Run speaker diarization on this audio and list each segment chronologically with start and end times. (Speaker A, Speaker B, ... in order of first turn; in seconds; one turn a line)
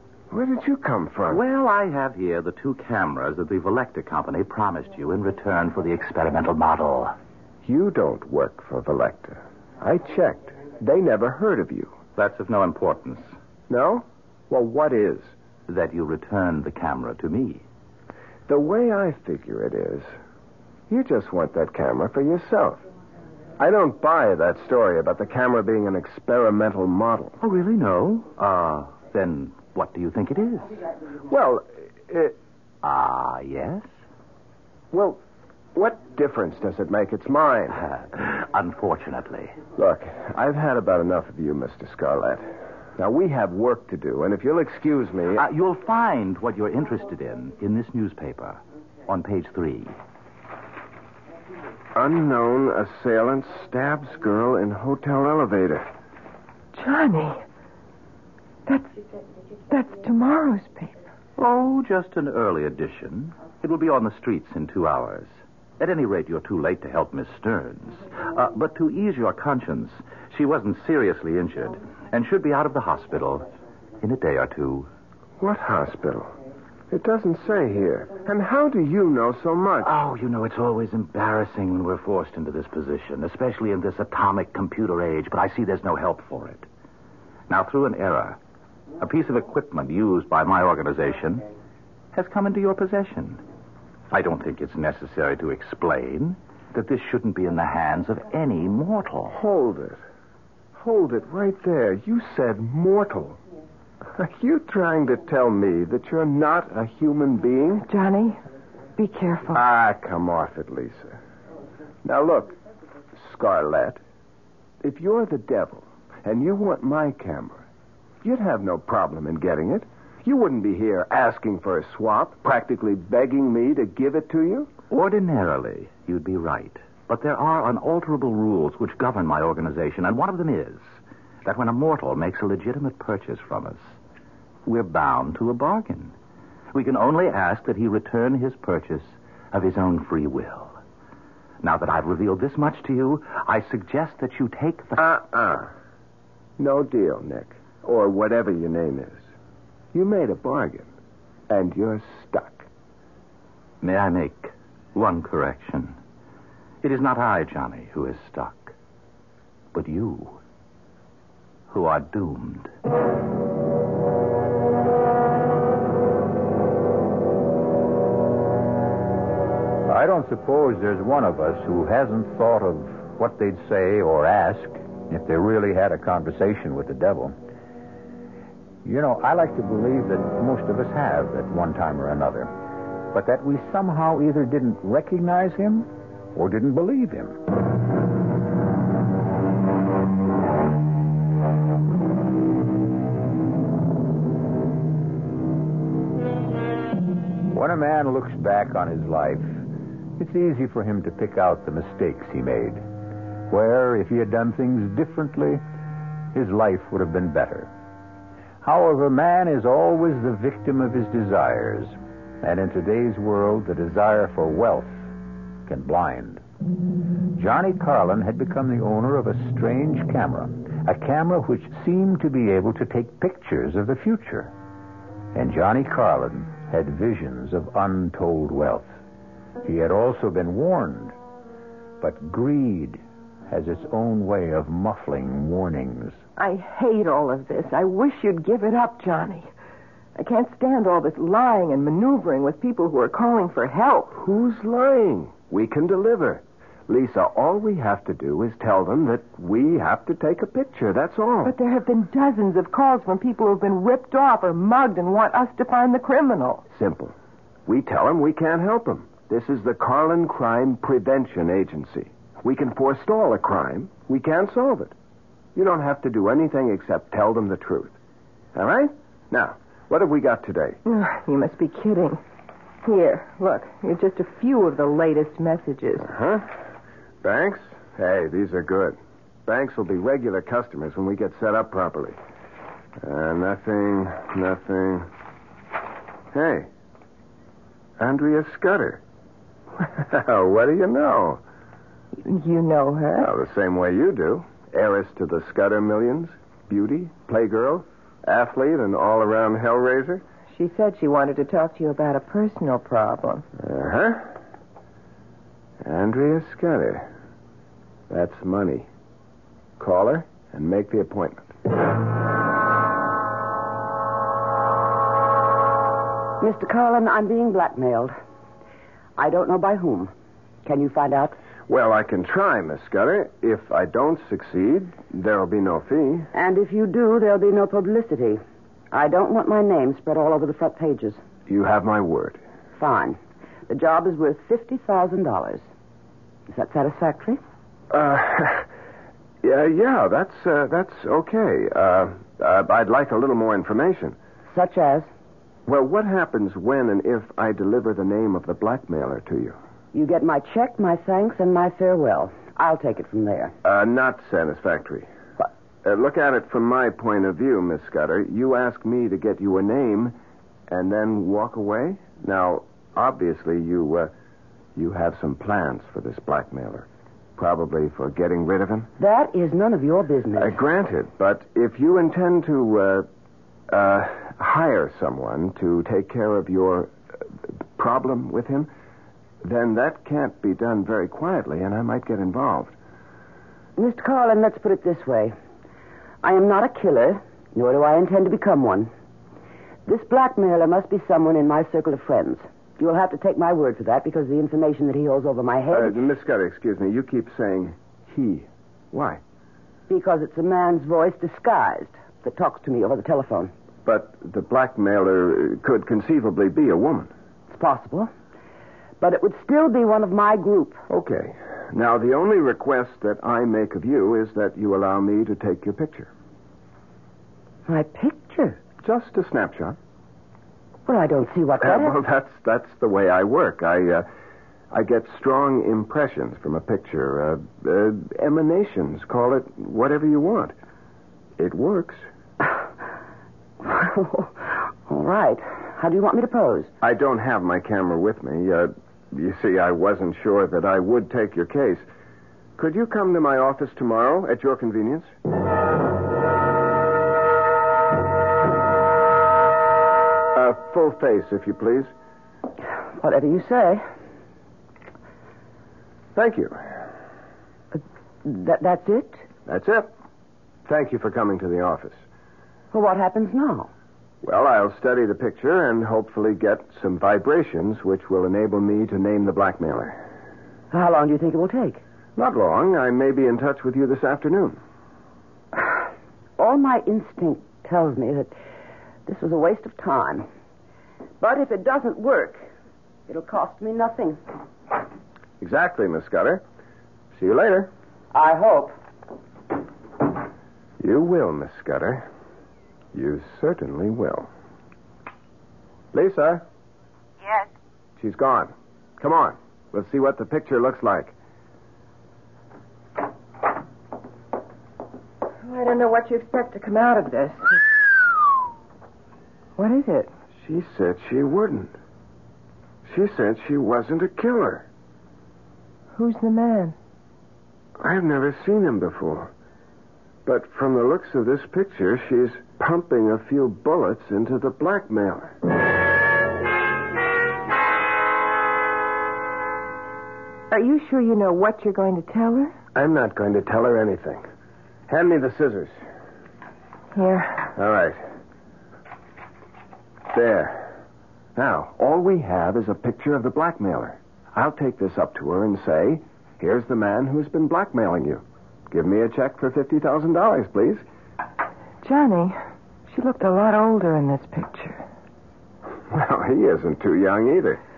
Speaker A: 0.3-1.4
Speaker B: 1.3-7.2
Speaker A: 7.6-11.9
Speaker B: 12.2-13.3
Speaker A: 13.7-15.3
Speaker B: 15.7-17.6
Speaker A: 18.5-20.1
Speaker A: 20.9-22.8
Speaker A: 23.6-27.4
Speaker B: 27.4-30.8
Speaker A: 31.3-32.4
Speaker B: 32.8-33.9
Speaker A: 34.9-35.2
Speaker A: 35.8-37.8
Speaker B: 37.8-39.6
Speaker A: 39.8-42.5
Speaker A: 43.0-45.4
Speaker B: 45.4-50.0
Speaker A: 52.0-55.9
Speaker C: 56.7-57.4
Speaker C: 58.7-59.0
Speaker C: 59.7-61.0
Speaker B: 61.4-73.5
Speaker B: 74.0-74.9
Speaker A: 75.4-76.3
Speaker A: 76.9-79.9
Speaker B: 79.8-86.7
Speaker B: 87.5-88.4
Speaker B: 89.0-91.5
Speaker B: 92.1-93.4
Speaker B: 94.1-99.4
Speaker A: 99.3-100.0
Speaker A: 100.8-103.4
Speaker A: 104.2-107.9
Speaker C: 107.9-108.4
Speaker C: 109.0-109.6
Speaker A: 109.5-111.2
Speaker A: 112.0-112.5
Speaker A: 113.2-114.0
Speaker A: 114.8-117.6
Speaker A: 118.2-124.7
Speaker B: 124.9-130.8
Speaker B: 131.4-133.9
Speaker B: 134.7-136.1
Speaker B: 136.7-140.8
Speaker B: 141.6-145.0
Speaker A: 145.0-145.7
Speaker A: 146.6-149.2
Speaker A: 149.9-150.9
Speaker A: 151.5-152.7
Speaker B: 153.8-156.0
Speaker B: 156.8-158.7
Speaker B: 159.7-160.4
Speaker B: 161.7-162.7
Speaker D: 169.9-177.3
Speaker D: 178.8-182.5
Speaker D: 183.1-187.4
Speaker D: 197.5-199.6
Speaker D: 200.2-202.8
Speaker D: 203.5-205.6
Speaker D: 206.3-207.7
Speaker D: 208.6-215.0
Speaker D: 215.7-216.4
Speaker D: 217.3-224.5
Speaker D: 225.3-228.9
Speaker D: 229.6-231.2
Speaker D: 232.0-236.2
Speaker C: 236.4-239.5
Speaker C: 240.2-244.2
Speaker A: 244.2-251.5
Speaker C: 251.4-256.6
Speaker A: 256.7-257.1
Speaker A: 257.7-264.9
Speaker A: 265.6-267.9
Speaker A: 268.6-270.8
Speaker C: 270.9-272.2
Speaker C: 272.8-276.1
Speaker A: 276.1-276.5
Speaker A: 277.2-282.2
Speaker A: 283.0-285.1
Speaker A: 286.3-286.7
Speaker A: 288.0-289.0
Speaker A: 289.8-291.4
Speaker C: 292.2-293.3
Speaker A: 293.2-300.2
Speaker C: 300.5-303.4
Speaker A: 303.6-304.3
Speaker A: 305.8-307.1
Speaker A: 308.1-308.9
Speaker A: 309.8-311.4
Speaker E: 316.4-318.1
Speaker E: 319.2-320.1
Speaker E: 320.6-321.4
Speaker A: 321.7-326.3
Speaker E: 326.3-328.4
Speaker E: 328.9-331.2
Speaker A: 331.5-332.4
Speaker E: 332.8-335.6
Speaker E: 336.5-337.4
Speaker A: 337.9-338.7
Speaker A: 339.4-344.2
Speaker E: 344.5-345.1
Speaker A: 345.7-349.6
Speaker E: 349.9-353.5
Speaker A: 353.6-355.1
Speaker A: 355.8-360.1
Speaker A: 360.7-364.1
Speaker A: 364.8-368.9
Speaker E: 369.0-370.6
Speaker A: 370.4-373.1
Speaker A: 373.7-376.9
Speaker A: 377.8-378.7
Speaker A: 379.4-382.8
Speaker E: 383.8-385.4
Speaker E: 386.2-388.9
Speaker E: 389.9-396.0
Speaker A: 395.7-399.2
Speaker E: 399.9-403.5
Speaker A: 403.9-407.1
Speaker E: 407.5-408.1
Speaker E: 409.0-410.8
Speaker A: 410.9-416.1
Speaker E: 417.7-418.6
Speaker A: 418.8-419.8
Speaker E: 420.9-422.0
Speaker A: 421.6-424.1
Speaker A: 424.7-430.5
Speaker A: 431.4-432.0
Speaker E: 433.6-436.7
Speaker A: 436.8-441.8
Speaker A: 442.6-445.1
Speaker A: 450.3-451.9
Speaker E: 453.0-453.8
Speaker A: 456.1-456.6
Speaker E: 457.7-459.3
Speaker A: 459.5-459.9
Speaker A: 460.7-462.0
Speaker E: 462.7-463.7
Speaker A: 464.2-470.0
Speaker E: 470.7-471.8
Speaker A: 472.2-474.6
Speaker E: 476.4-478.3
Speaker E: 479.1-480.3
Speaker E: 481.2-482.4
Speaker E: 483.1-484.2
Speaker A: 485.4-486.4
Speaker A: 487.1-487.7
Speaker E: 488.1-488.8
Speaker A: 490.8-492.1
Speaker A: 492.9-494.3
Speaker A: 495.9-496.4
Speaker E: 497.2-497.5
Speaker A: 498.0-501.1
Speaker C: 505.4-507.6
Speaker C: 509.6-510.1
Speaker A: 510.4-511.7
Speaker A: 512.9-514.6
Speaker C: 516.0-516.8
Speaker A: 517.8-519.3
Speaker A: 520.2-525.4
Speaker C: 530.5-532.5
Speaker A: 532.8-534.2
Speaker A: 534.9-535.8
Speaker C: 536.9-537.5
Speaker A: 537.5-538.0
Speaker A: 540.1-540.7
Speaker A: 541.4-550.8
Speaker C: 551.8-552.4
Speaker C: 552.9-554.8
Speaker A: 555.9-557.6